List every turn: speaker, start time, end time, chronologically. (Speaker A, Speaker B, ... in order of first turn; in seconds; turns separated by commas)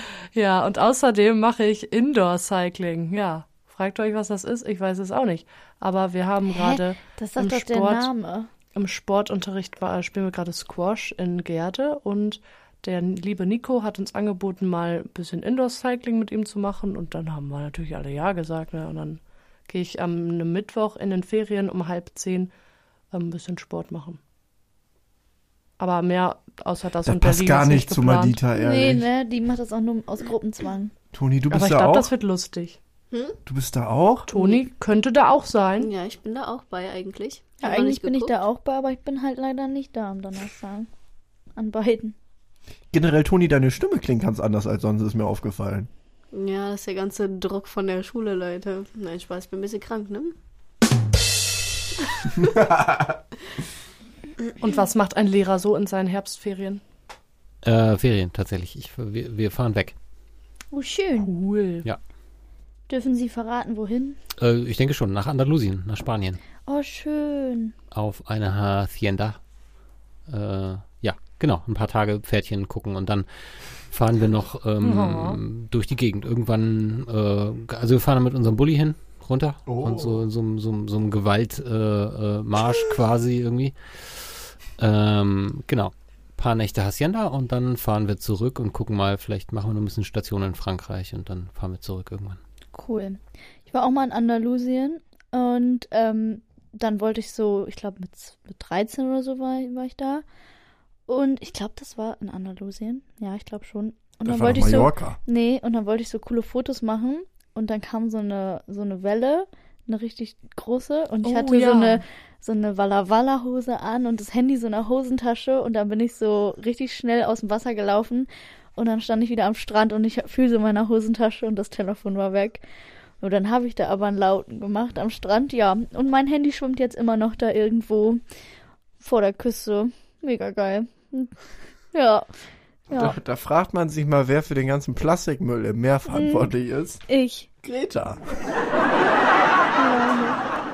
Speaker A: 0.3-8.1, Speaker B: 6.5-8.5, Speaker A: 8.7-22.5, Speaker A: 23.1-24.2, Speaker A: 25.8-28.4, Speaker C: 27.0-29.1, Speaker B: 28.5-30.9, Speaker C: 31.1-32.1, Speaker A: 31.5-32.8, Speaker D: 33.1-33.4, Speaker C: 33.5-34.3, Speaker A: 34.3-35.9, Speaker D: 35.8-38.4, Speaker B: 37.6-40.9, Speaker B: 41.5-42.1, Speaker C: 42.9-45.9, Speaker D: 46.3-50.3, Speaker C: 52.4-53.2, Speaker A: 54.6-56.8, Speaker E: 57.6-59.9, Speaker B: 60.7-61.3, Speaker A: 61.2-61.8, Speaker B: 62.9-64.2, Speaker E: 64.4-66.4, Speaker B: 66.7-67.7, Speaker E: 67.9-69.4, Speaker E: 70.3-73.3, Speaker E: 73.9-84.2, Speaker A: 74.8-75.4, Speaker C: 79.7-80.2, Speaker E: 84.8-92.4, Speaker B: 92.7-100.2, Speaker B: 101.1-122.6, Speaker C: 104.2-105.2, Speaker A: 111.2-112.0, Speaker B: 123.2-128.2, Speaker B: 129.0-131.3, Speaker B: 131.9-132.3, Speaker B: 132.9-133.2, Speaker C: 132.9-137.0, Speaker B: 136.1-136.5, Speaker B: 137.1-137.5, Speaker C: 137.6-138.2, Speaker B: 139.7-140.4